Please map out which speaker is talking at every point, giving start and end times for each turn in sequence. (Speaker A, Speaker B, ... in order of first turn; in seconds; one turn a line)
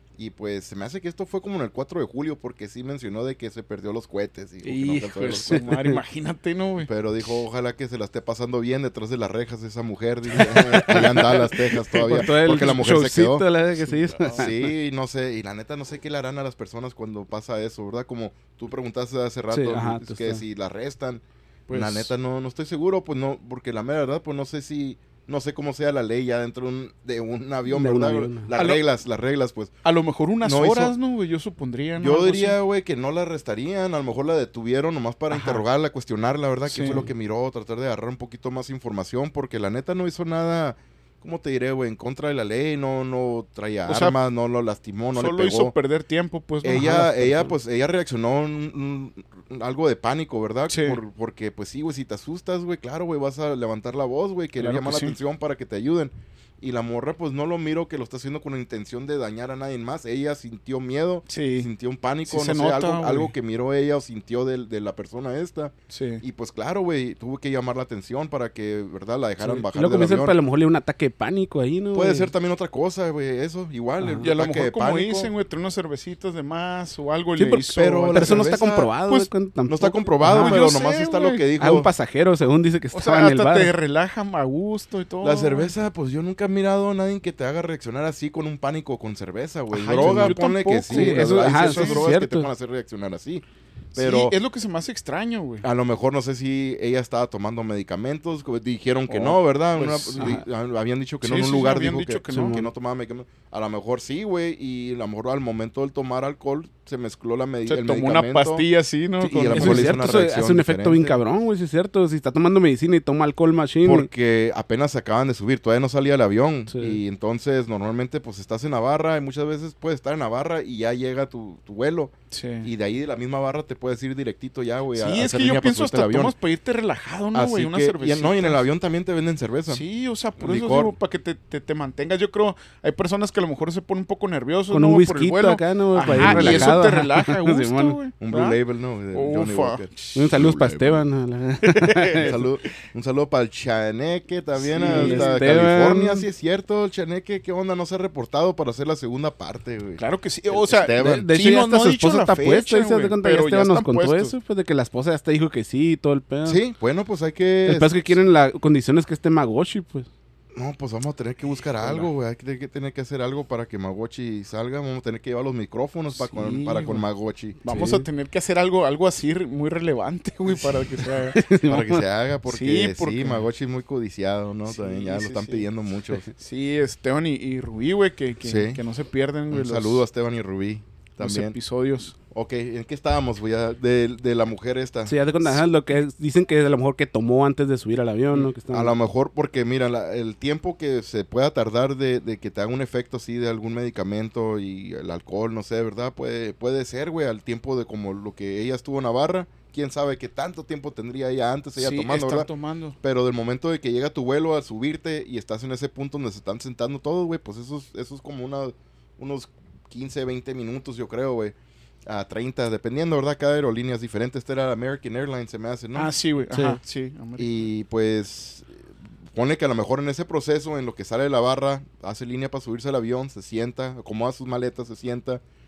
Speaker A: 0.2-5.6
Speaker B: 4.6-6.9
Speaker C: 5.5-6.0
Speaker A: 6.9-13.4
Speaker C: 10.3-14.5
Speaker B: 13.8-14.5
Speaker A: 14.3-29.7
Speaker C: 19.5-20.4
Speaker B: 21.7-22.1
Speaker C: 27.7-28.5
Speaker B: 28.6-28.8
Speaker B: 29.8-32.6
Speaker A: 30.4-30.9
Speaker A: 32.0-45.7
Speaker B: 35.3-35.6
Speaker B: 36.7-37.1
Speaker B: 43.9-44.1
Speaker B: 45.1-47.5
Speaker A: 46.6-70.4
Speaker B: 50.7-51.0
Speaker B: 54.6-55.2
Speaker B: 61.3-61.7
Speaker B: 62.3-63.3
Speaker B: 65.9-66.2
Speaker C: 69.4-72.3
Speaker A: 71.9-75.3
Speaker C: 74.0-74.3
Speaker B: 74.2-79.3
Speaker A: 77.3-78.8
Speaker C: 78.1-80.6
Speaker A: 79.7-81.9
Speaker B: 80.2-81.5
Speaker C: 81.6-83.7
Speaker B: 82.9-85.7
Speaker A: 85.2-93.4
Speaker B: 89.7-92.1
Speaker C: 90.0-90.4
Speaker C: 90.9-92.5
Speaker A: 93.9-94.3
Speaker B: 93.9-95.7
Speaker A: 95.6-108.7
Speaker B: 99.1-100.4
Speaker C: 100.2-100.4
Speaker B: 101.2-102.7
Speaker C: 102.3-102.5
Speaker B: 107.7-110.0
Speaker A: 109.2-111.2
Speaker C: 109.5-114.1
Speaker A: 113.8-126.3
Speaker C: 116.7-117.0
Speaker B: 122.3-122.7
Speaker B: 124.9-128.6
Speaker A: 127.3-129.8
Speaker B: 129.7-138.6
Speaker A: 130.4-130.9
Speaker C: 134.7-138.0
Speaker A: 136.1-136.8
Speaker A: 138.2-141.0
Speaker B: 139.1-140.7
Speaker C: 140.1-142.3
Speaker B: 141.6-142.4
Speaker A: 142.2-151.3
Speaker B: 144.6-145.4
Speaker C: 144.8-146.2
Speaker B: 150.0-154.3
Speaker C: 150.9-156.6
Speaker A: 156.5-158.2
Speaker C: 157.7-160.1
Speaker A: 160.5-167.6
Speaker B: 161.8-162.1
Speaker B: 166.1-167.0
Speaker C: 167.6-168.1
Speaker B: 167.6-171.4
Speaker A: 170.5-176.3
Speaker C: 171.3-172.0
Speaker B: 172.5-173.5
Speaker B: 174.6-175.7
Speaker B: 176.3-180.0
Speaker A: 178.4-178.8
Speaker A: 179.5-181.5
Speaker B: 181.2-182.2
Speaker A: 182.3-185.6
Speaker C: 185.1-188.9
Speaker A: 188.7-202.5
Speaker B: 201.8-203.0
Speaker A: 203.0-211.5
Speaker A: 212.1-216.1
Speaker B: 215.9-217.5
Speaker C: 216.5-216.8
Speaker A: 217.4-218.8
Speaker A: 219.3-225.4